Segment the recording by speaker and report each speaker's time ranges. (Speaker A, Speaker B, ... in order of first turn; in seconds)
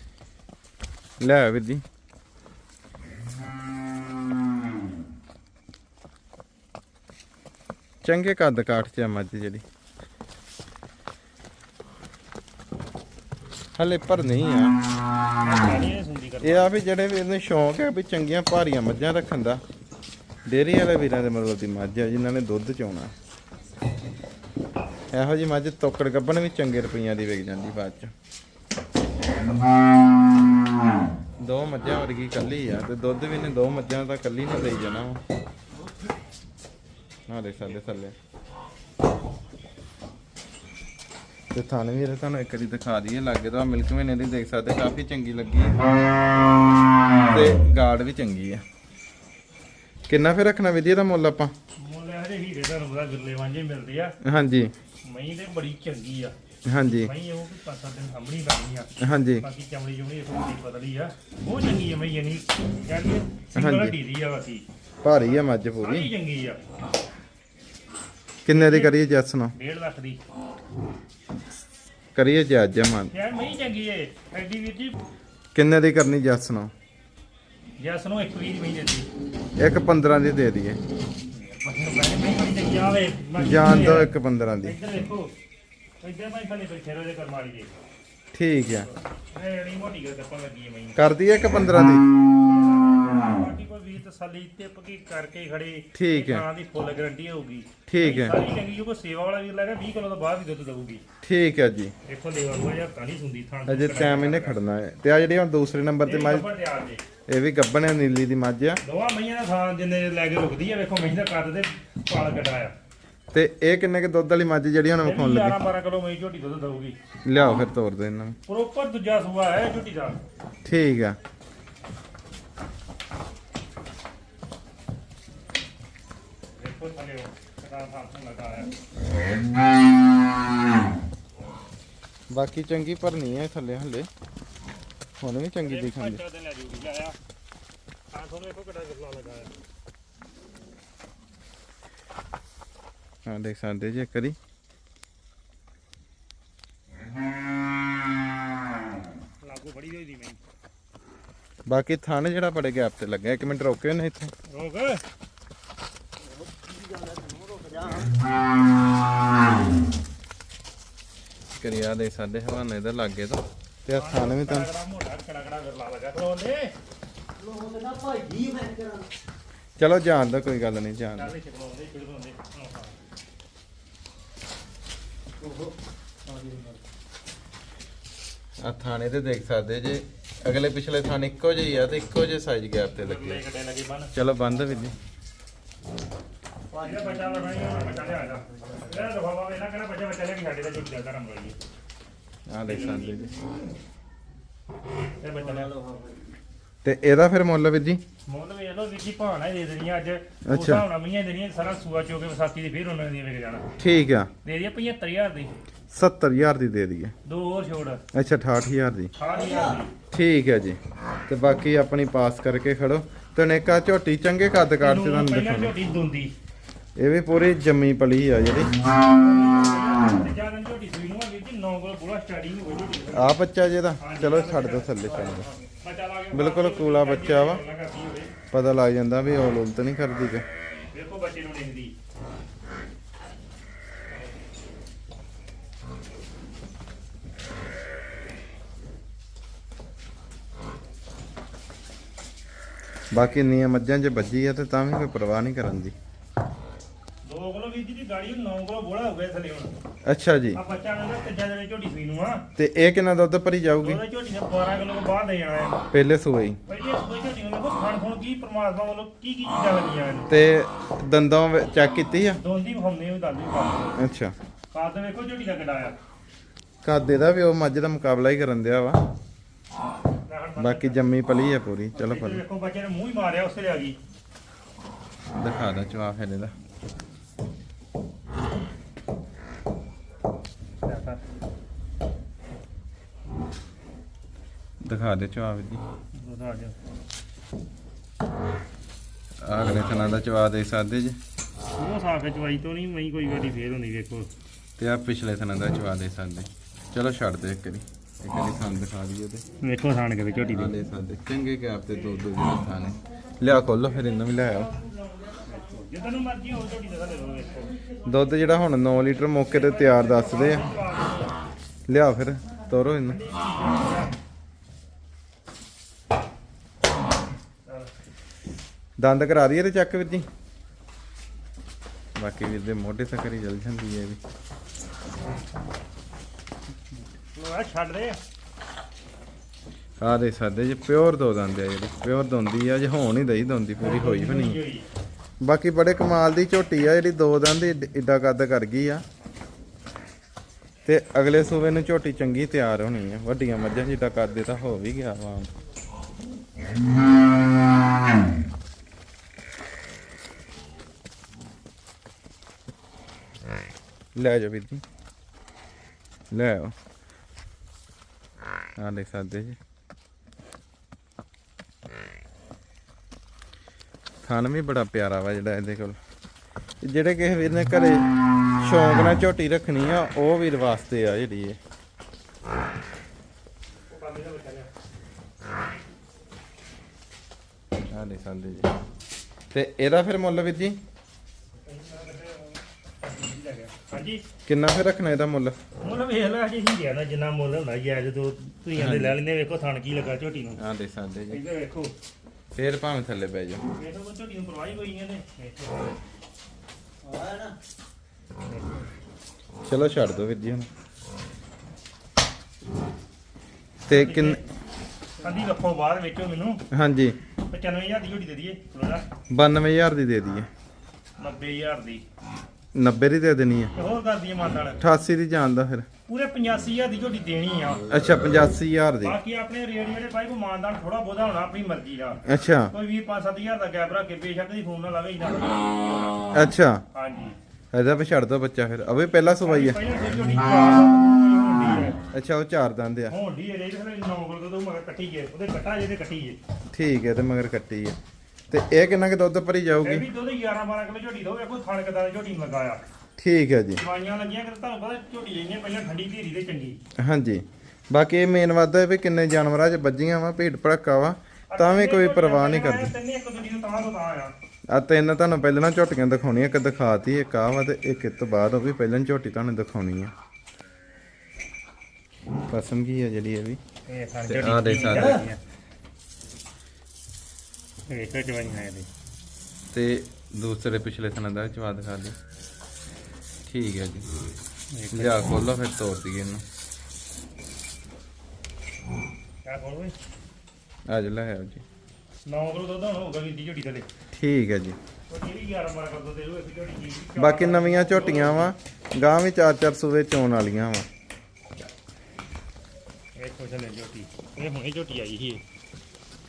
Speaker A: 1.2-1.8, 8.0-9.6, 13.8-14.8, 16.4-19.6, 20.5-23.1, 25.1-28.1, 31.4-35.2, 37.3-38.1, 41.5-45.9, 47.3-48.6, 50.1-51.5, 54.2-54.7, 56.7-57.1, 59.0-59.5, 63.5-64.0, 65.0-66.1, 68.5-69.5, 72.2-73.1, 75.5-76.7, 79.6-80.8, 83.4-84.8, 88.3-88.9, 91.0-92.1, 96.0-96.5, 97.9-98.5, 101.2-102.0, 103.7-106.5, 107.3-108.8, 113.3-115.6, 117.2-118.4, 120.7-121.2, 132.3-134.1, 135.2-136.2, 143.3-144.4, 151.7-154.3, 161.6-164.7, 169.8-171.3, 178.6-183.4, 184.1-184.9, 192.5-193.3, 196.8-198.0, 200.5-200.9, 203.8-204.3, 205.9-207.1, 208.1-209.1, 210.1-215.7, 217.0-218.7, 223.1-225.5, 226.3-227.6, 228.5-230.4, 243.1-245.9, 250.1-250.6, 252.6-254.0, 255.9-256.6, 260.3-262.4, 264.0-264.4, 266.8-269.0, 270.6-272.4, 275.3-276.5, 284.8-285.8, 289.4-291.2, 294.8-299.5, 300.5-304.7, 308.1-310.7, 311.9-313.2, 319.0-320.3, 322.2-324.2, 330.0-334.6, 335.4-339.0, 340.9-345.5, 354.1-354.8, 356.3-356.8, 358.8-359.6, 364.2-366.0, 366.8-371.6, 377.9-378.7, 379.5-380.8, 384.5-385.6, 388.8-389.2, 390.6-391.4, 392.6-393.6, 399.6-400.7, 403.9-404.4, 406.7-407.2, 409.3-410.5, 412.7-413.7, 414.8-415.9, 417.9-419.2, 422.3-422.7, 426.3-426.8, 427.7-429.8, 432.1-433.1, 436.7-438.0, 438.5-440.1, 443.2-443.8, 447.0-452.9, 454.7-460.1, 462.5-463.6, 464.3-465.2, 469.7-472.2, 473.4-474.1, 474.9-476.4, 480.9-481.6, 484.1-484.8, 487.2-490.9
Speaker B: 15.4-16.7, 51.8-54.2, 55.0-56.3, 57.0-64.7, 65.2-66.6, 68.5-68.9, 69.5-70.2, 73.1-75.0, 77.8-79.1, 81.3-84.1, 84.6-85.3, 86.0-87.7, 89.3-91.0, 92.4-101.0, 102.1-104.6, 106.0-107.0, 108.8-112.7, 115.0-117.0, 118.5-120.2, 126.6-128.7, 135.6-137.2, 138.1-139.5, 149.4-150.4, 154.5-155.0, 163.9-166.7, 171.2-172.9, 183.0-184.2, 186.8-191.6, 192.7-193.3, 195.2-195.7, 198.3-203.7, 204.4-205.5, 207.2-208.0, 209.2-209.9, 214.8-216.3, 219.1-223.4, 224.0-228.3, 230.9-231.9, 247.2-249.7, 250.6-252.5, 253.8-255.8, 256.7-260.3, 262.4-264.0, 264.7-266.0, 270.3-271.0, 271.9-274.0, 280.8-281.2, 286.1-286.8, 291.8-294.3, 299.6-300.8, 305.4-307.8, 309.4-311.3, 313.1-314.2, 327.4-328.2, 333.8-334.9, 373.9-374.7, 381.7-384.2, 385.8-390.6, 391.3-391.9, 393.8-395.9, 398.4-398.8, 403.9-404.4, 405.2-406.6, 407.5-409.1, 411.2-412.0, 413.8-414.8, 416.1-417.8, 419.0-426.3, 426.9-427.4, 429.4-432.0, 433.1-436.4, 439.8-442.8, 443.8-446.8, 451.5-454.3, 463.9-465.4, 467.9-468.9, 474.7-475.2, 479.4-479.9, 482.3-483.9, 485.1-488.5, 493.2-495.4
Speaker C: 156.2-158.5, 167.4-169.1, 175.4-175.8, 176.3-176.8, 186.7-189.1, 195.4-196.2, 209.2-209.8, 397.0-397.6